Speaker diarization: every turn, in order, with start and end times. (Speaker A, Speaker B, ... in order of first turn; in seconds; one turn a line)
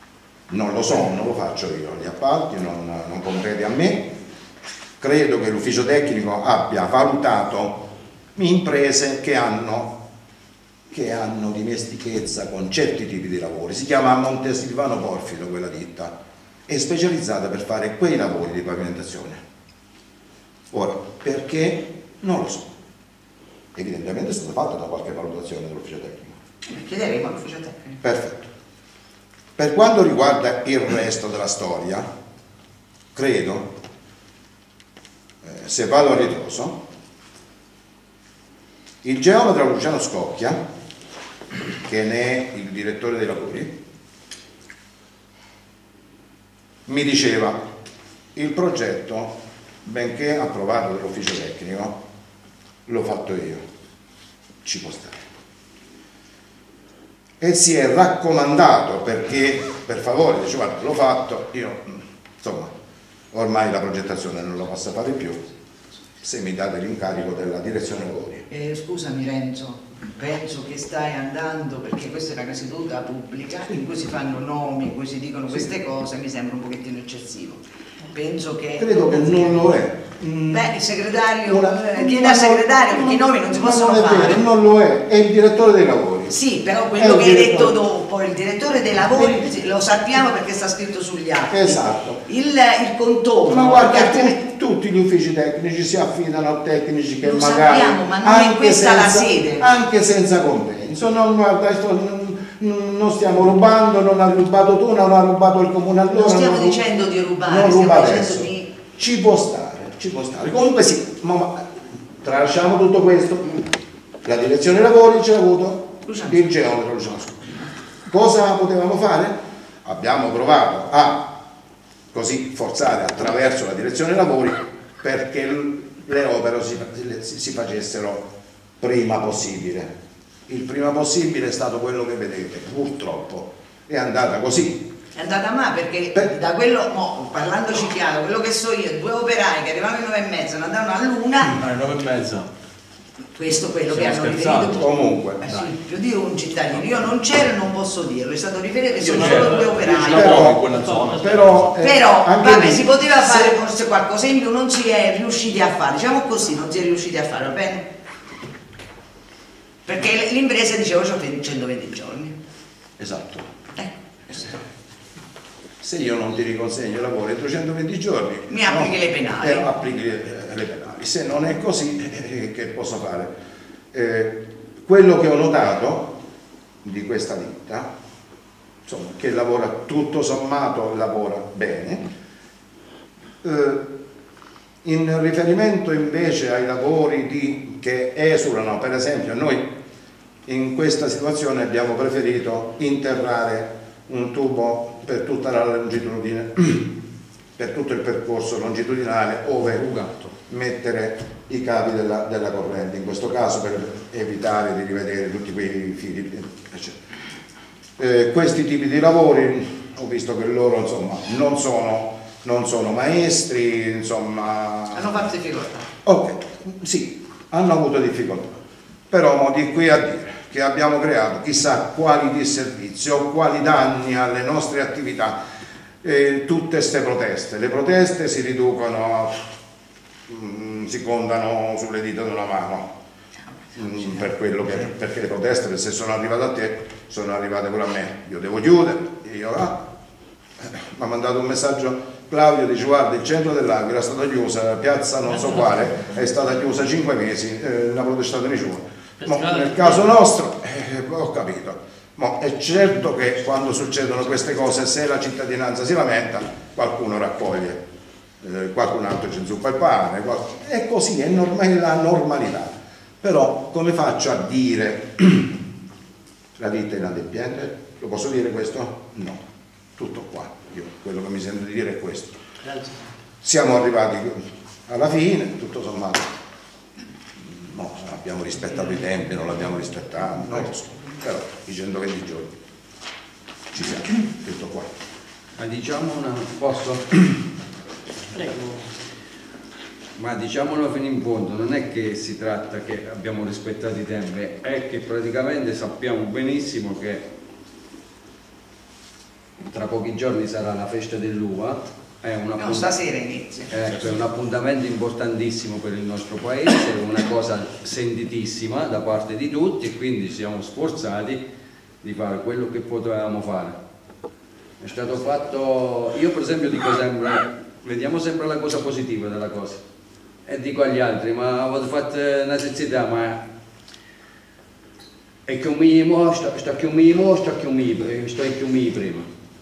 Speaker A: 0.5-4.1
Speaker A: 5.0-10.0
Speaker A: 10.9-16.1
Speaker A: 16.7-19.4
Speaker A: 20.7-22.7
Speaker A: 23.7-26.4
Speaker B: 26.7-28.0
Speaker A: 28.0-28.5
Speaker A: 29.6-32.1
Speaker A: 33.1-33.7
Speaker A: 35.4-36.8
Speaker A: 39.0-40.6
Speaker A: 41.8-43.8
Speaker A: 46.9-47.7
Speaker A: 48.3-52.0
Speaker A: 52.9-53.6
Speaker A: 54.6-55.2
Speaker A: 57.4-62.7
Speaker A: 63.3-65.4
Speaker A: 66.2-68.5
Speaker B: 68.5-79.7
Speaker A: 78.8-80.8
Speaker B: 80.5-84.4
Speaker A: 81.4-86.4
Speaker B: 86.3-94.4
Speaker A: 87.0-87.8
Speaker A: 89.1-89.5
Speaker A: 91.5-92.2
Speaker A: 93.5-106.8
Speaker B: 97.2-99.7
Speaker B: 106.1-108.7
Speaker A: 107.4-111.7
Speaker A: 112.2-113.7
Speaker A: 114.2-121.4
Speaker B: 116.1-116.4
Speaker A: 122.1-129.9
Speaker A: 130.5-134.9
Speaker B: 135.1-141.6
Speaker C: 141.5-142.5
Speaker B: 143.3-150.5
Speaker C: 143.9-145.7
Speaker A: 144.6-145.4
Speaker C: 149.0-151.8
Speaker D: 149.1-151.5
Speaker A: 149.9-153.5
Speaker B: 151.8-157.9
Speaker B: 159.8-162.3
Speaker A: 163.0-163.5
Speaker B: 163.8-164.6
Speaker A: 165.8-173.3
Speaker B: 168.5-169.7
Speaker A: 173.9-176.2
Speaker A: 176.8-177.9
Speaker A: 178.8-182.1
Speaker A: 183.4-183.9
Speaker A: 184.8-189.7
Speaker A: 190.4-197.0
Speaker A: 197.6-207.0
Speaker A: 208.0-215.2
Speaker B: 214.9-215.9
Speaker A: 216.0-218.6
Speaker A: 219.1-225.4
Speaker A: 226.0-229.3
Speaker A: 230.3-232.9
Speaker A: 233.7-239.8
Speaker B: 233.8-234.2
Speaker A: 240.6-257.8
Speaker D: 245.3-246.0
Speaker D: 249.2-250.2
Speaker A: 258.4-265.6
Speaker A: 266.6-269.4
Speaker A: 269.9-272.4
Speaker D: 272.6-273.2
Speaker A: 273.4-276.3
Speaker A: 277.4-282.6
Speaker A: 283.7-284.9
Speaker E: 285.6-287.4
Speaker D: 288.3-289.0
Speaker E: 290.1-297.2
Speaker E: 299.7-302.9
Speaker B: 302.6-303.7
Speaker E: 303.7-311.4
Speaker E: 312.0-313.8
Speaker E: 314.8-319.8
Speaker E: 320.4-323.4
Speaker E: 325.4-329.3